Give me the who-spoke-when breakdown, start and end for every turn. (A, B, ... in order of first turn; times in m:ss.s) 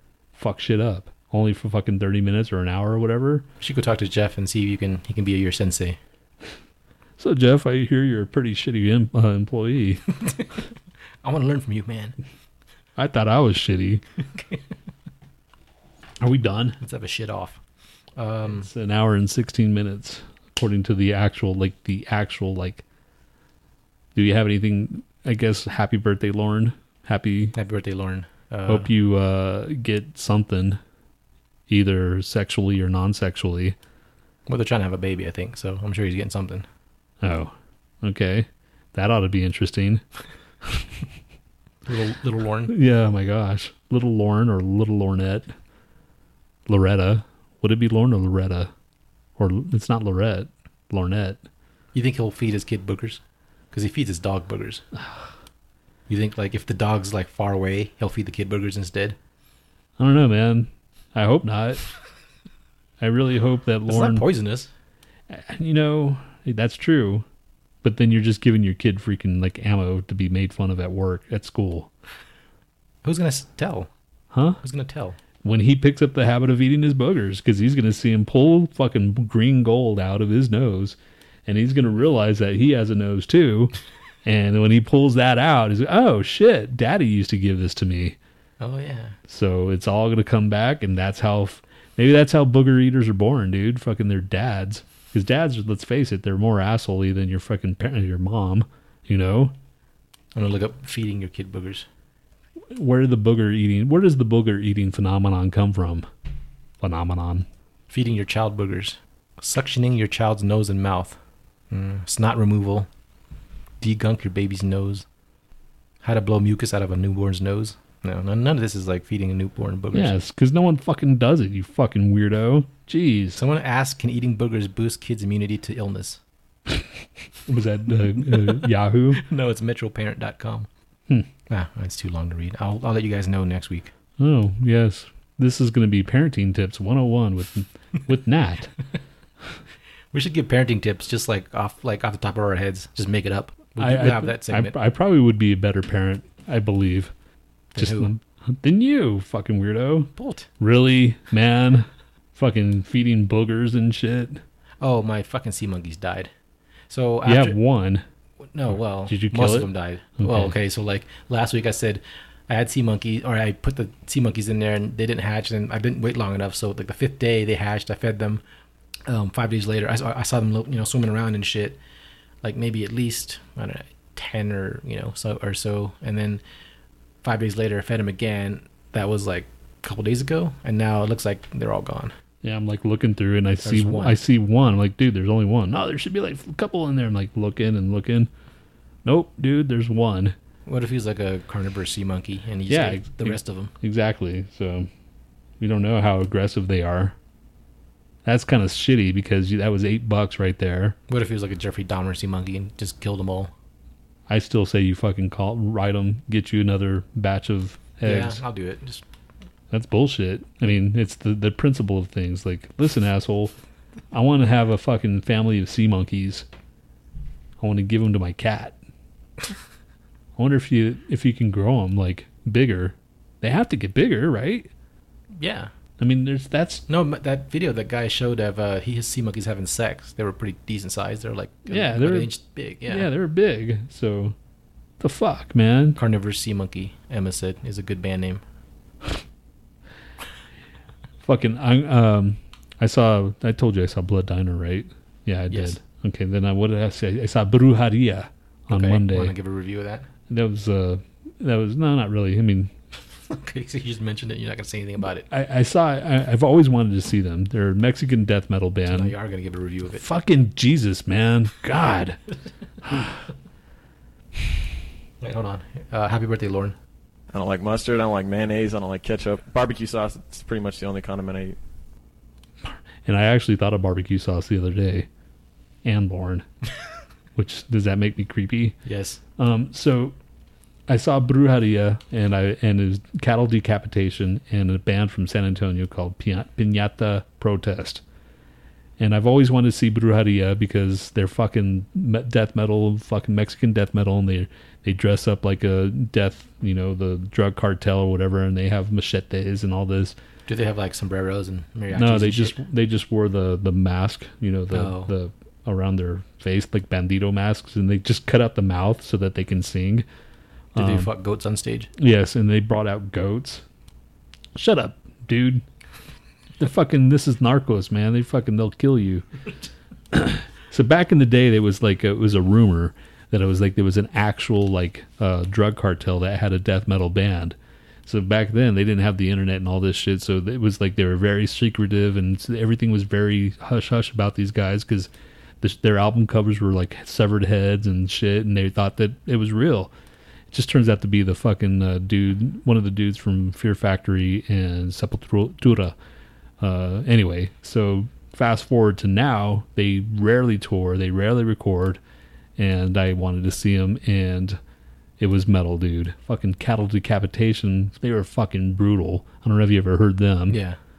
0:00.3-0:03.4 A
0:03.6-0:06.0 B
0:07.2-0:10.0 A
0:11.2-0:12.2 B
0:13.0-0:14.0 A
0:14.3-0:14.6 B
0:16.2-0:16.8 A
0:16.8-0:17.6 B
0:18.2-0:18.7 B
0:18.6-0:22.8 A
0:24.1-0:27.6 A
0:27.5-0:28.9 B
0:28.6-0:30.8 A
0:31.7-0:33.8 A
0:34.5-0:36.7 B
0:37.2-0:40.0 A
0:41.8-0:42.7 B
0:42.7-0:45.5 A
0:46.7-0:48.7 A
0:49.4-0:51.4 A
0:51.9-0:54.8 B
0:55.0-0:55.3 A
0:56.1-0:59.2 B
1:00.0-1:01.8 A
1:03.0-1:04.2 A
1:03.8-1:04.7 B
1:05.3-1:07.2 A
1:07.8-1:11.9 A
1:13.0-1:13.9 B
1:14.3-1:14.6 A
1:14.6-1:15.2 B
1:15.4-1:28.2 A
1:28.6-1:29.2 B
1:29.3-1:39.5 A
1:40.3-1:41.9 B
1:42.7-1:46.1 A
1:46.8-1:47.5 A
1:47.9-1:51.2 B
1:51.7-1:52.9 B
1:53.8-1:55.0 B
1:56.0-2:00.1 B
1:59.9-2:03.4 A
2:03.4-2:06.2 B
2:07.4-2:09.2 A
2:08.2-2:10.7 B
2:11.5-2:13.9 B
2:14.2-2:18.7 A
2:20.1-2:24.7 B
2:23.8-2:27.1 A
2:27.7-2:28.1 B
2:27.8-2:34.4 A
2:30.2-2:30.5 B
2:34.8-2:36.3 B
2:36.9-2:37.6 B
2:37.2-2:38.0 A
2:38.4-2:48.4 B
2:39.0-2:40.5 A
2:49.0-2:51.8 B
2:52.4-2:56.4 B
2:57.2-3:02.1 B
3:02.4-3:08.3 A
3:03.6-3:04.2 B
3:09.0-3:10.4 A
3:10.6-3:13.7 B
3:12.7-3:14.9 A
3:15.6-3:17.2 A
3:18.2-3:21.0 A
3:21.1-3:23.5 B
3:24.3-3:28.4 A
3:28.0-3:29.0 B
3:29.7-3:33.5 A
3:34.1-3:36.4 A
3:37.6-3:38.8 A
3:40.4-3:44.7 A
3:45.3-3:45.7 B
3:46.0-3:46.8 A
3:46.9-3:53.1 B
3:51.7-3:52.3 A
3:52.9-3:54.4 A
3:55.0-3:56.0 A
3:56.0-3:58.4 B
4:01.2-4:09.3 A
4:05.5-4:05.8 B
4:08.7-4:10.1 B
4:10.3-4:12.7 A
4:13.3-4:15.3 B
4:15.3-4:19.1 A
4:18.8-4:20.0 B
4:19.9-4:22.2 A
4:22.8-4:23.2 A
4:25.2-4:26.8 B
4:27.3-4:31.6 C
4:33.0-4:35.1 A
4:35.8-4:36.4 A
4:37.4-4:38.8 A
4:38.8-4:39.2 B
4:39.4-4:40.1 A
4:40.9-4:48.0 A
4:49.0-5:00.2 A
5:00.5-5:02.6 B
5:01.9-5:10.0 A
5:04.7-5:05.1 B
5:10.7-5:11.9 B
5:10.8-5:11.1 A
5:12.0-5:13.6 A
5:14.5-5:15.6 A
5:16.6-5:19.3 A
5:20.1-5:35.1 A
5:35.6-5:39.9 A
5:40.5-5:46.0 A
5:46.6-5:52.0 A
5:52.6-5:54.6 A
5:55.2-6:00.6 A
6:00.5-6:00.8 B